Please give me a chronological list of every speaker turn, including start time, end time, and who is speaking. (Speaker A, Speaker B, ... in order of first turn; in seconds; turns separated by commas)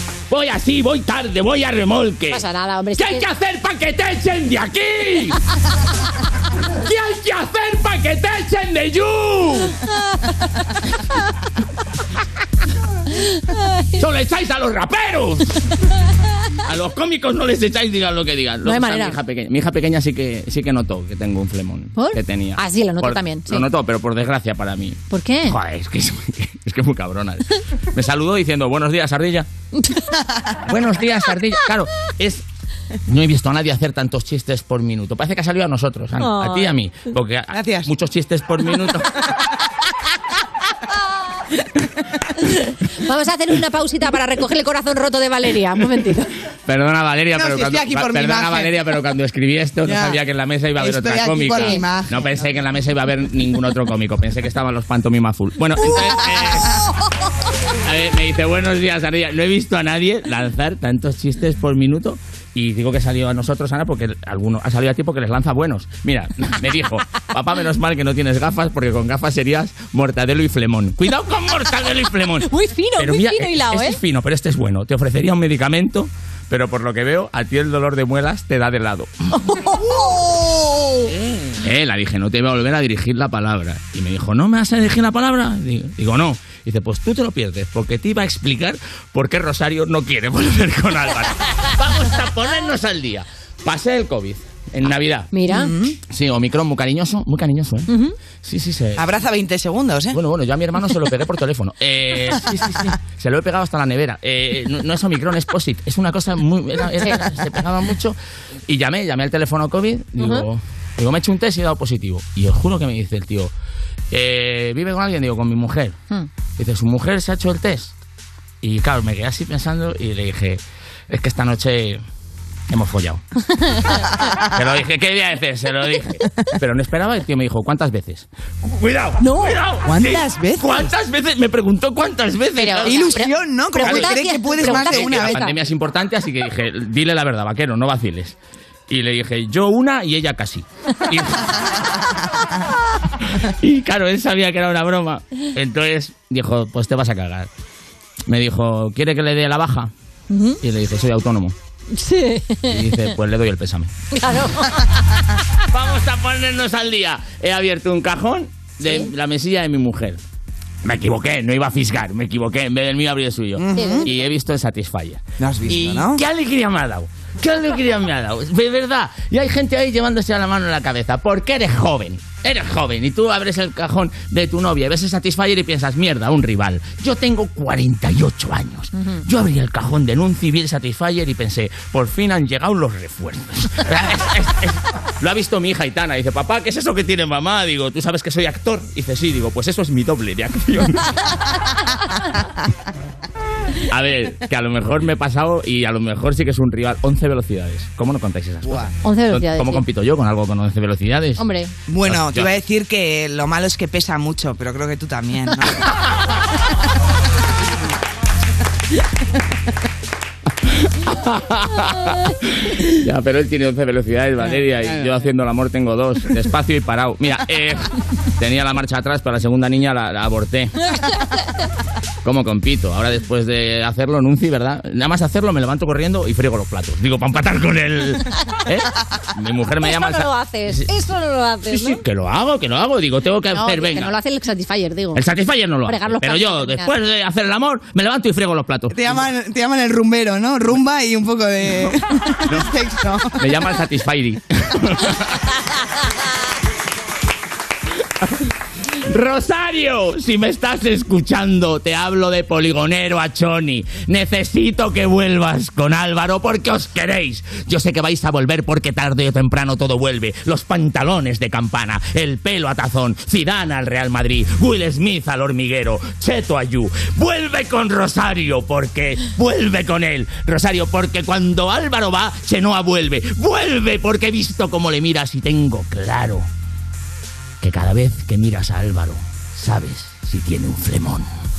Speaker A: 0.3-2.4, Speaker B: 2.3-3.3, Speaker A: 3.0-5.4, Speaker A: 6.8-9.7, Speaker B: 13.2-13.8, Speaker A: 14.0-15.4, Speaker A: 16.7-27.4, Speaker B: 18.6-19.2, Speaker B: 21.9-23.6, Speaker B: 25.1-25.6, Speaker A: 27.9-29.5, Speaker A: 30.7-32.4, Speaker A: 33.1-39.1, Speaker B: 36.2-36.7, Speaker C: 37.5-37.9, Speaker B: 42.5-46.3, Speaker A: 46.7-56.7, Speaker C: 47.3-48.9, Speaker C: 49.8-50.2, Speaker C: 50.8-52.5, Speaker B: 51.5-51.8, Speaker A: 57.9-79.2, Speaker B: 72.4-74.0, Speaker B: 79.4-79.8, Speaker A: 81.6-95.3, Speaker B: 95.3-95.7, Speaker C: 95.5-96.0, Speaker A: 96.1-97.9, Speaker B: 97.9-98.1, Speaker A: 98.4-99.0, Speaker C: 99.0-100.2, Speaker A: 100.1-102.5, Speaker C: 102.4-102.9, Speaker A: 103.2-108.2, Speaker A: 108.7-113.5, Speaker B: 110.2-110.4, Speaker A: 114.1-116.0, Speaker A: 116.6-117.9, Speaker A: 118.6-122.0, Speaker A: 122.7-123.2, Speaker B: 123.5-124.1, Speaker A: 124.5-133.1, Speaker B: 129.2-129.6, Speaker C: 129.8-130.9, Speaker B: 132.6-135.6, Speaker C: 132.8-135.5, Speaker A: 133.8-138.3, Speaker A: 138.9-141.4, Speaker A: 143.6-147.5, Speaker A: 148.3-149.9, Speaker B: 150.3-150.6, Speaker A: 150.6-151.5, Speaker B: 151.9-153.1, Speaker A: 152.7-153.9, Speaker B: 154.2-154.8, Speaker A: 155.7-160.2, Speaker A: 160.8-191.0, Speaker C: 163.6-164.1, Speaker B: 163.7-164.1, Speaker C: 165.4-166.2, Speaker B: 178.9-179.2, Speaker A: 193.9-201.4, Speaker C: 198.6-198.9, Speaker B: 199.0-199.8, Speaker B: 201.4-201.7, Speaker C: 201.9-206.1, Speaker A: 202.0-202.5, Speaker A: 211.1-212.1, Speaker A: 213.0-220.7, Speaker C: 214.4-215.2, Speaker B: 220.9-221.3, Speaker A: 222.2-230.8, Speaker B: 229.8-232.0, Speaker A: 231.7-234.1, Speaker B: 233.5-235.2, Speaker A: 235.1-239.2, Speaker B: 235.8-236.9, Speaker C: 238.9-243.3, Speaker A: 243.4-245.0, Speaker A: 249.1-276.5, Speaker A: 277.6-281.3